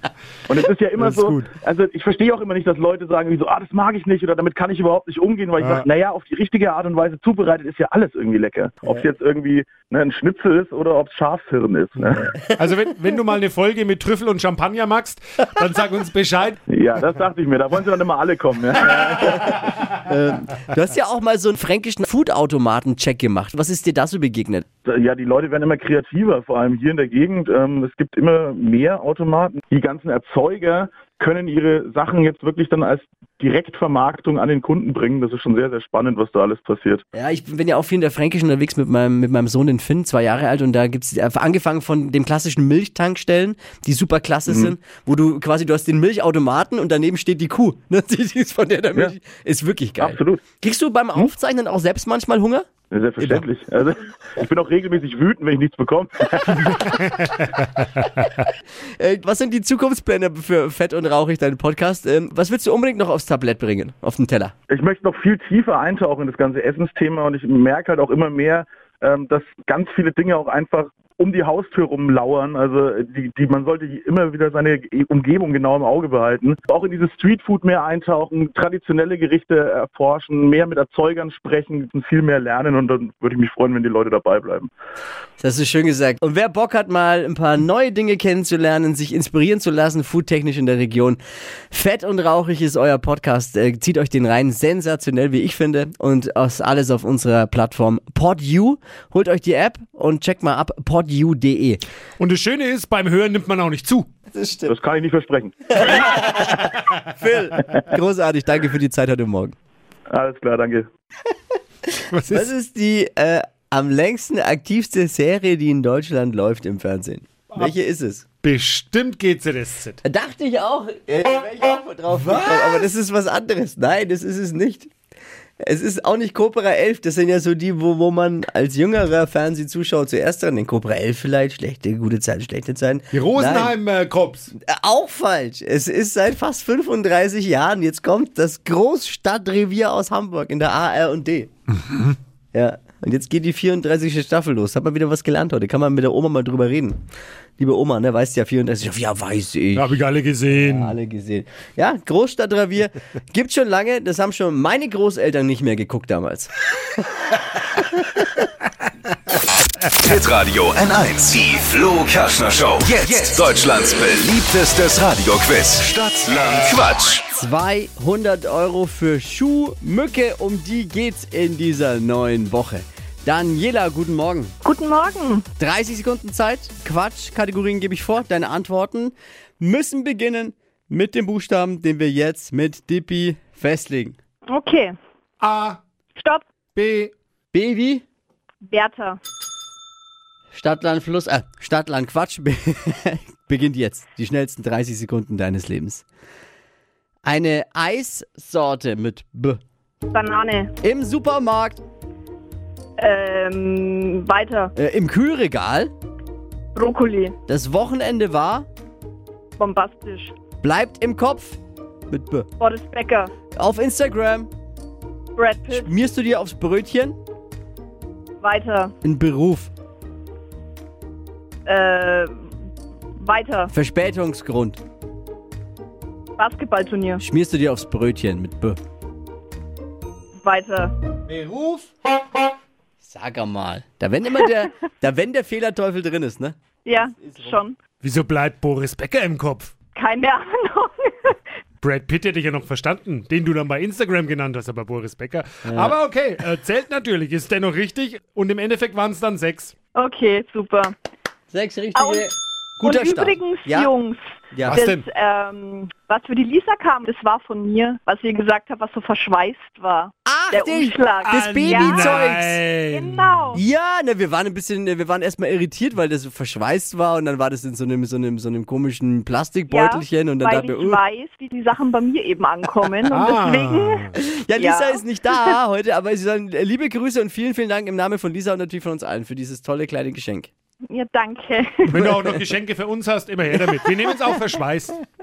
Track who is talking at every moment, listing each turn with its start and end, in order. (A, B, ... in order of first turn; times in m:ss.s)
0:00.5-0:12.3 A
0:01.0-0:01.5 B
0:05.6-0:05.8 B
0:12.0-0:16.6 B
0:12.3-0:12.8 C
0:16.7-0:19.6 A
0:19.2-0:24.7 C
0:24.8-0:37.0 A
0:37.1-0:52.7 C
0:44.5-0:44.7 A
0:50.0-0:50.4 A
0:52.9-0:56.9 A
0:53.2-0:53.4 C
0:57.2-0:57.7 B
0:59.0-1:04.5 C
1:04.7-1:24.7 A
1:25.4-1:31.2 C
1:31.7-1:41.8 C
1:42.2-1:44.1 B
1:44.3-1:44.7 C
1:44.7-1:45.8 A
1:45.7-1:49.6 C
1:50.1-1:50.8 A
1:52.1-1:52.5 B
1:52.2-1:58.2 C
1:58.4-2:00.0 B
2:00.0-2:04.9 C
2:02.1-2:02.6 B
2:05.6-2:13.8 C
2:13.1-2:14.5 B
2:14.6-2:21.5 C
2:21.9-2:22.1 B
2:22.5-2:27.0 C
2:27.6-2:30.0 C
2:29.8-2:31.0 B
2:30.5-2:36.5 C
2:40.0-2:47.2 D
2:47.3-2:54.6 C
2:54.6-2:55.4 E
2:55.6-3:04.2 C
3:04.5-3:04.9 E
3:05.4-3:05.8 B
3:06.2-3:06.5 E
3:06.7-3:07.1 B
3:07.5-3:08.0 C
3:08.6-3:09.2 E
3:10.5-3:16.0 C
3:17.2-3:19.6 C
3:20.1-3:20.7 E
3:20.8-3:21.8 C
3:23.0-3:24.7 E
3:24.8-3:25.9 C
3:26.7-3:27.4 E
3:27.5-3:28.7 C
3:29.6-3:30.3 E
3:30.6-3:32.5 C
3:32.6-3:33.3 E
3:33.5-3:34.5 C
3:35.4-3:35.9 E
3:35.7-3:37.2 C
3:38.4-3:38.9 E
3:39.0-3:39.7 C
3:41.6-3:42.3 E
3:43.2-3:43.7 E
3:43.7-3:44.8 C
3:46.4-3:47.2 E
3:47.2-3:48.8 C
3:50.4-3:50.9 E
3:51.3-3:51.8 C
3:53.0-3:57.6 C
3:56.8-3:57.8 E
3:58.0-3:59.7 B
3:59.9-4:01.4 E
4:01.8-4:09.7 B
4:05.6-4:05.9 C
4:09.9-4:10.9 E
4:11.5-4:13.9 C
4:11.9-4:12.3 E
4:12.8-4:14.2 E
4:14.5-4:14.8 C
4:14.6-4:15.1 B
4:14.7-4:22.3 E
4:20.2-4:22.6 C
4:21.2-4:23.6 B
4:22.9-4:23.6 E
4:23.5-4:31.0 C
4:29.7-4:34.0 E
4:33.1-4:34.2 B
4:34.1-4:40.5 C
4:34.6-4:35.5 E
4:40.9-4:42.0 E
4:41.9-4:45.0 B
4:42.0-4:42.3 C